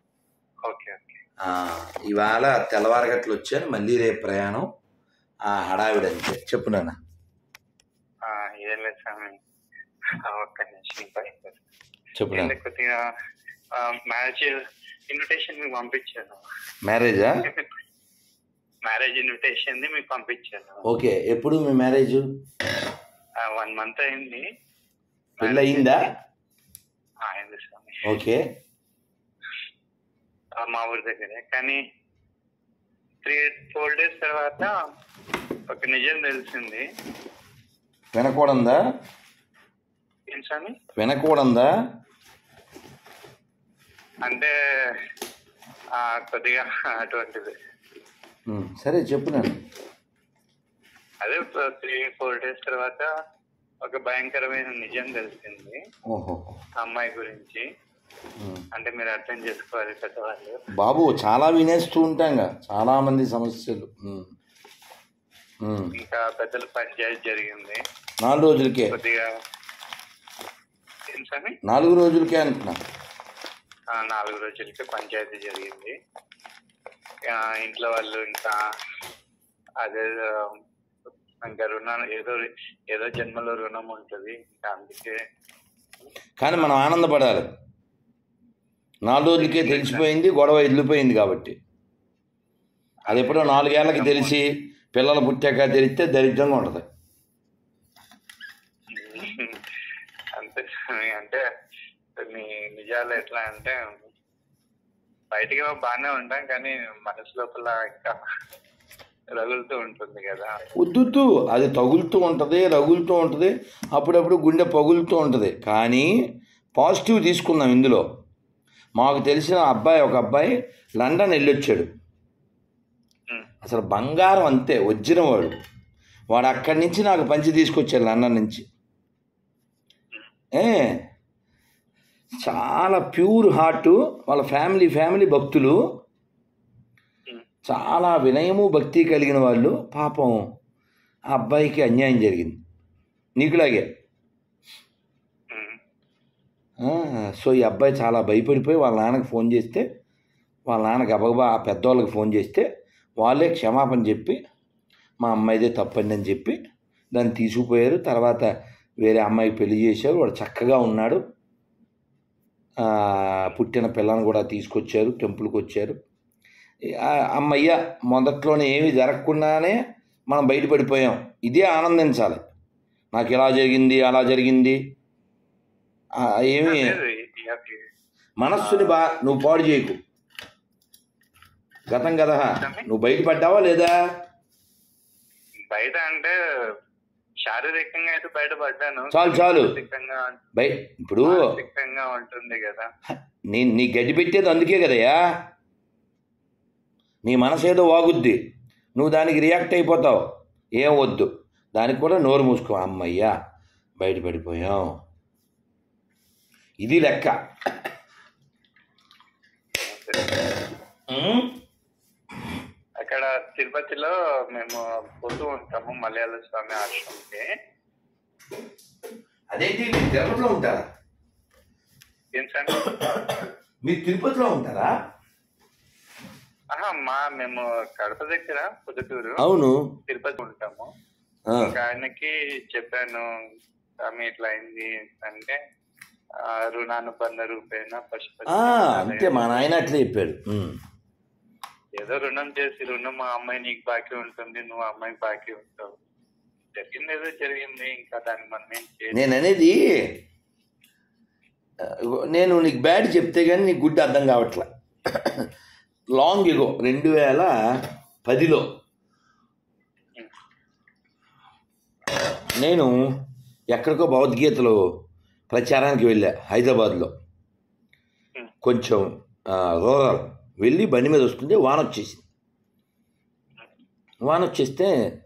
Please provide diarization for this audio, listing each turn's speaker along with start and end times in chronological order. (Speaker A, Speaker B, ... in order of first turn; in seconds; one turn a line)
Speaker A: 0.7-1.2
Speaker B: 1.4-4.7
Speaker B: 5.5-7.0
Speaker A: 8.3-9.3
Speaker A: 10.3-11.6
Speaker B: 12.2-12.5
Speaker A: 12.3-13.0
Speaker A: 13.8-14.6
Speaker A: 15.1-16.4
Speaker B: 16.9-17.4
Speaker A: 18.9-20.8
Speaker B: 20.9-22.2
Speaker A: 23.5-24.4
Speaker A: 25.4-26.0
Speaker B: 25.4-26.1
Speaker A: 27.2-28.0
Speaker B: 28.0-28.4
Speaker A: 30.6-31.8
Speaker A: 33.2-34.7
Speaker A: 35.7-36.8
Speaker B: 38.1-38.8
Speaker A: 40.3-40.7
Speaker B: 41.0-41.7
Speaker A: 44.2-44.5
Speaker A: 46.0-47.5
Speaker B: 48.5-49.6
Speaker A: 51.2-53.1
Speaker A: 53.9-55.8
Speaker B: 56.1-56.5
Speaker A: 56.8-57.6
Speaker A: 58.7-60.6
Speaker B: 60.8-64.3
Speaker B: 65.6-65.9
Speaker A: 66.0-67.8
Speaker B: 68.2-68.9
Speaker A: 68.9-69.2
Speaker A: 71.1-71.5
Speaker B: 71.7-72.8
Speaker A: 73.9-75.9
Speaker A: 77.3-78.6
Speaker A: 79.8-80.5
Speaker A: 81.4-85.1
Speaker B: 86.4-87.5
Speaker B: 89.1-91.5
Speaker A: 89.4-90.0
Speaker B: 93.1-96.8
Speaker A: 93.1-94.3
Speaker A: 98.9-99.6
Speaker A: 100.4-101.4
Speaker A: 102.2-104.0
Speaker A: 105.3-108.1
Speaker A: 109.4-110.5
Speaker B: 110.8-116.1
Speaker B: 116.8-118.0
Speaker B: 119.0-121.9
Speaker B: 123.6-125.5
Speaker B: 126.3-128.6
Speaker B: 130.6-130.9
Speaker B: 132.4-135.8
Speaker B: 137.7-140.4
Speaker B: 141.3-142.6
Speaker B: 143.4-143.9
Speaker A: 145.5-145.8
Speaker B: 146.8-149.8
Speaker B: 150.7-152.7
Speaker B: 153.2-154.4
Speaker B: 155.2-156.6
Speaker B: 157.1-158.5
Speaker B: 159.0-161.2
Speaker B: 162.8-166.0
Speaker B: 167.0-169.8
Speaker B: 170.3-172.4
Speaker B: 173.1-174.8
Speaker B: 176.2-176.9
Speaker A: 176.6-177.8
Speaker B: 178.4-180.0
Speaker A: 178.6-178.9
Speaker B: 181.9-183.9
Speaker A: 182.4-182.9
Speaker A: 185.7-186.3
Speaker A: 187.4-190.4
Speaker B: 189.1-189.7
Speaker B: 190.6-191.4
Speaker A: 191.2-192.9
Speaker B: 193.5-195.2
Speaker B: 197.2-198.4
Speaker B: 199.0-200.2
Speaker B: 200.8-203.3
Speaker B: 204.0-204.9
Speaker B: 206.8-207.3
Speaker A: 209.8-210.4
Speaker B: 211.1-211.5
Speaker A: 213.0-217.4
Speaker B: 219.5-220.8
Speaker A: 222.4-223.1
Speaker B: 223.8-224.9
Speaker A: 226.7-229.4
Speaker B: 229.4-229.8
Speaker A: 230.1-230.9
Speaker A: 231.6-233.2
Speaker A: 234.1-235.6
Speaker A: 236.7-239.6
Speaker B: 238.5-240.8
Speaker A: 242.0-246.0
Speaker A: 246.7-249.2
Speaker B: 249.1-249.8
Speaker B: 251.8-255.4
Speaker B: 256.2-257.5
Speaker B: 258.2-258.6
Speaker B: 262.6-262.9
Speaker B: 263.7-264.8
Speaker B: 265.5-267.1
Speaker B: 268.6-269.1
Speaker B: 269.8-272.2
Speaker B: 274.3-274.9